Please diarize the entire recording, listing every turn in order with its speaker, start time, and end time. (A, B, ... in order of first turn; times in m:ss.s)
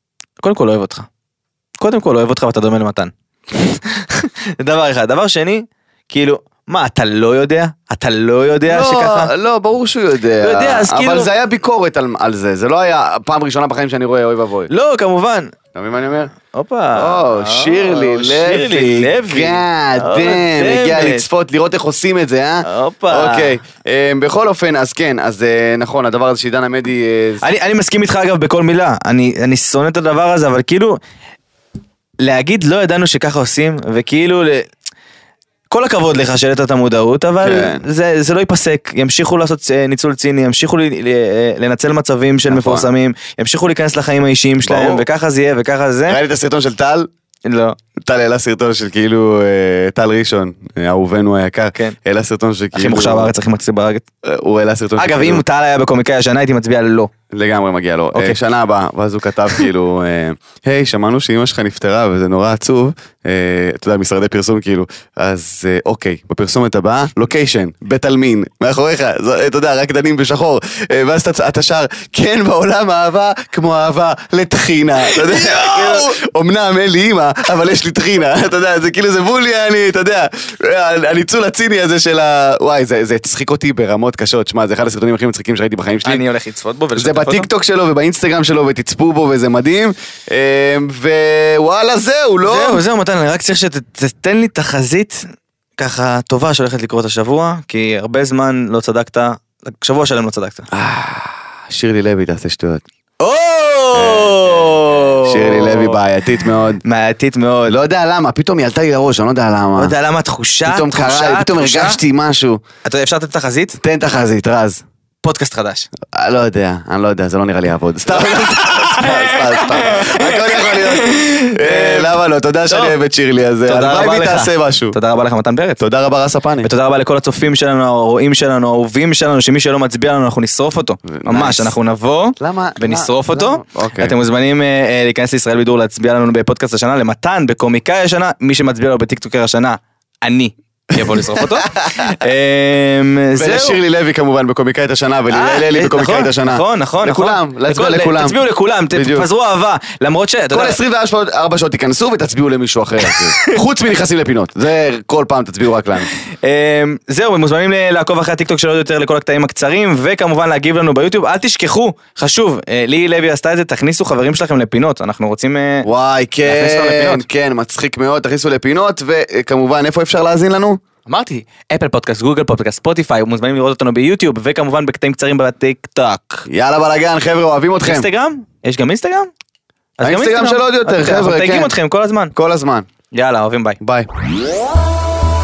0:00.4-0:01.1 A
0:01.8-0:09.3 A
0:08.7-0:14.7 B
0:10.4-0:11.3 A
0:14.7-0:15.6 A
0:15.7-0:16.3 B
0:16.5-0:21.3 A
0:17.0-0:27.4 B
0:22.6-0:23.5 A
0:27.4-0:31.0 A
0:32.2-0:34.7 A
0:35.7-0:46.2 A
0:37.4-0:37.8 B
0:42.5-0:42.9 B
0:44.6-0:45.1 B
0:46.1-0:47.1 B
0:47.4-0:47.8 A
0:48.0-0:53.3 B
0:52.7-0:54.1 A
0:54.2-0:55.4 B
0:55.0-0:57.1 A
0:57.3-1:26.2 B
0:58.1-0:58.4 A
1:15.0-1:16.1 A
1:26.0-1:27.5 A
1:27.0-1:32.8 B
1:32.4-1:40.7 A
1:40.7-1:42.8 B
1:43.2-1:46.0 A
1:43.9-1:46.8 B
1:46.8-1:47.8 A
1:47.7-1:49.9 B
1:49.8-1:52.0 A
1:50.7-1:52.6 B
1:52.8-1:53.8 A
1:53.8-1:54.8 B
1:55.2-1:55.9 A
1:56.1-2:05.0 B
1:58.1-2:03.0 A
2:03.7-2:05.8 A
2:05.8-2:06.7 B
2:06.6-2:23.8 A
2:11.1-2:11.8 B
2:12.4-2:14.1 B
2:21.0-2:22.1 B
2:23.4-2:29.3 B
2:25.3-2:30.8 A
2:30.5-2:36.1 B
2:36.4-2:45.9 A
2:45.8-2:50.8 B
2:46.4-2:47.2 A
2:51.1-2:56.5 A
2:56.5-2:58.1 B
2:57.8-2:59.3 A
3:00.0-3:02.4 A
3:00.0-3:01.8 B
3:02.4-3:02.9 B
3:03.1-3:03.8 A
3:03.8-3:04.1 B